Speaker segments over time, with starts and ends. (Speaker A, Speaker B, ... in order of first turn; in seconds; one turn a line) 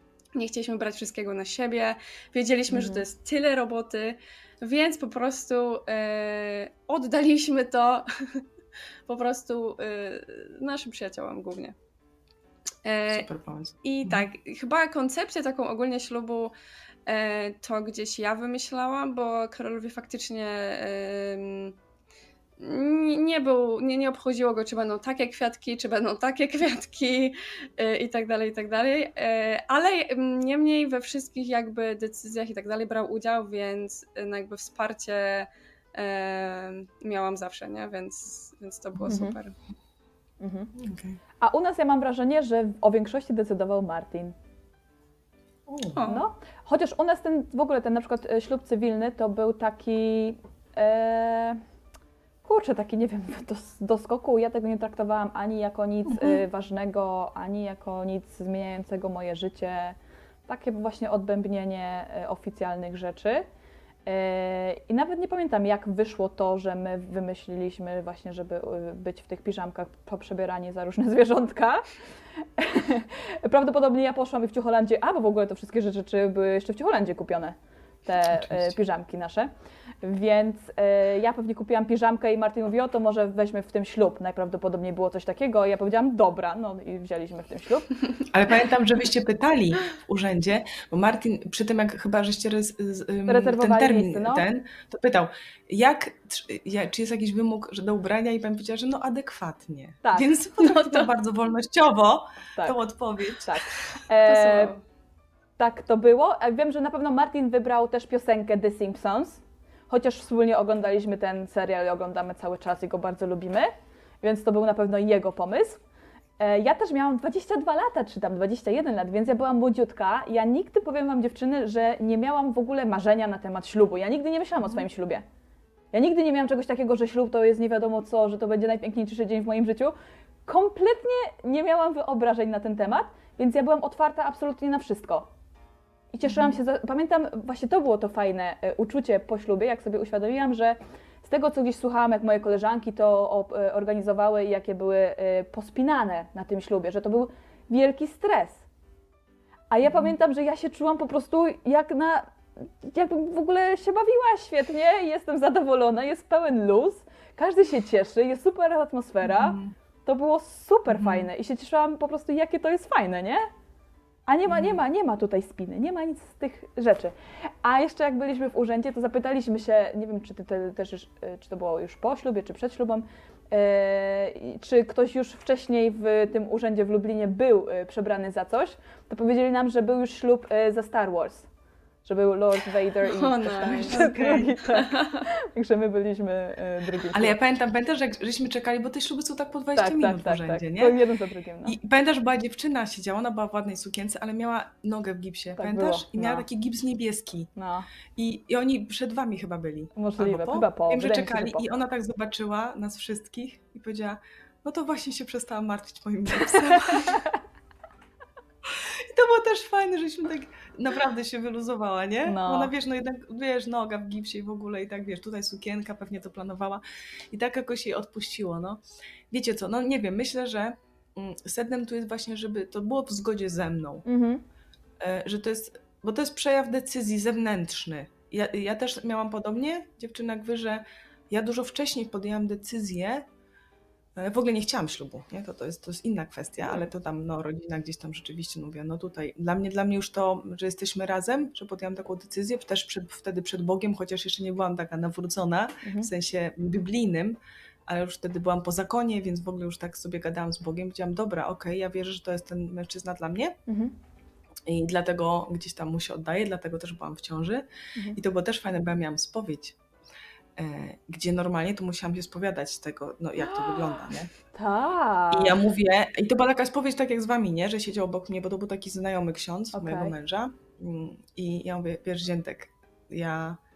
Speaker A: 0.3-8.4
Speaker B: 2.7-3.0
Speaker A: 9.1-11.8
Speaker A: 12.8-13.3
Speaker C: 13.1-14.3
Speaker A: 13.8-16.5
Speaker A: 17.1-21.8
Speaker A: 22.6-39.5
Speaker B: 39.0-39.4
Speaker B: 40.4-40.7
Speaker C: 40.7-41.2
Speaker B: 41.4-44.3
Speaker C: 45.7-46.0
Speaker A: 45.9-46.2
Speaker B: 46.0-51.6
Speaker B: 52.4-60.0
Speaker C: 56.1-56.4
Speaker B: 60.5-63.4
Speaker B: 64.0-79.5
Speaker C: 78.3-78.7
Speaker B: 80.0-87.9
Speaker C: 88.3-103.8
Speaker B: 93.3-94.4
Speaker B: 100.0-100.3
Speaker A: 100.6-101.1
Speaker B: 102.5-102.8
Speaker B: 103.4-104.7
Speaker A: 104.2-104.8
Speaker B: 105.6-113.7
Speaker B: 114.2-115.8
Speaker B: 116.4-125.2
Speaker C: 124.6-124.8
Speaker B: 125.9-129.9
Speaker B: 130.4-135.3
Speaker B: 136.1-148.6
Speaker C: 136.2-136.6
Speaker B: 149.7-163.5
Speaker C: 149.9-150.1
Speaker C: 159.2-159.7
Speaker C: 160.9-161.3
Speaker B: 164.3-181.5
Speaker C: 164.4-164.8
Speaker B: 182.0-187.3
Speaker A: 183.0-184.1
Speaker C: 183.7-184.6
Speaker A: 184.7-185.2
Speaker C: 187.1-191.0
Speaker B: 189.7-191.8
Speaker C: 191.6-197.5
Speaker B: 195.6-196.4
Speaker B: 197.6-197.9
Speaker C: 198.2-207.2
Speaker B: 199.9-201.6
Speaker B: 206.9-207.3
Speaker C: 208.6-224.0
Speaker B: 212.2-212.7
Speaker B: 224.1-224.4
Speaker C: 225.0-233.2
Speaker C: 234.2-253.6
Speaker B: 245.8-246.1
Speaker B: 253.7-253.9
Speaker C: 254.7-259.8
Speaker C: 260.6-264.3
Speaker B: 263.4-265.6
Speaker C: 265.3-273.6
Speaker B: 269.7-270.1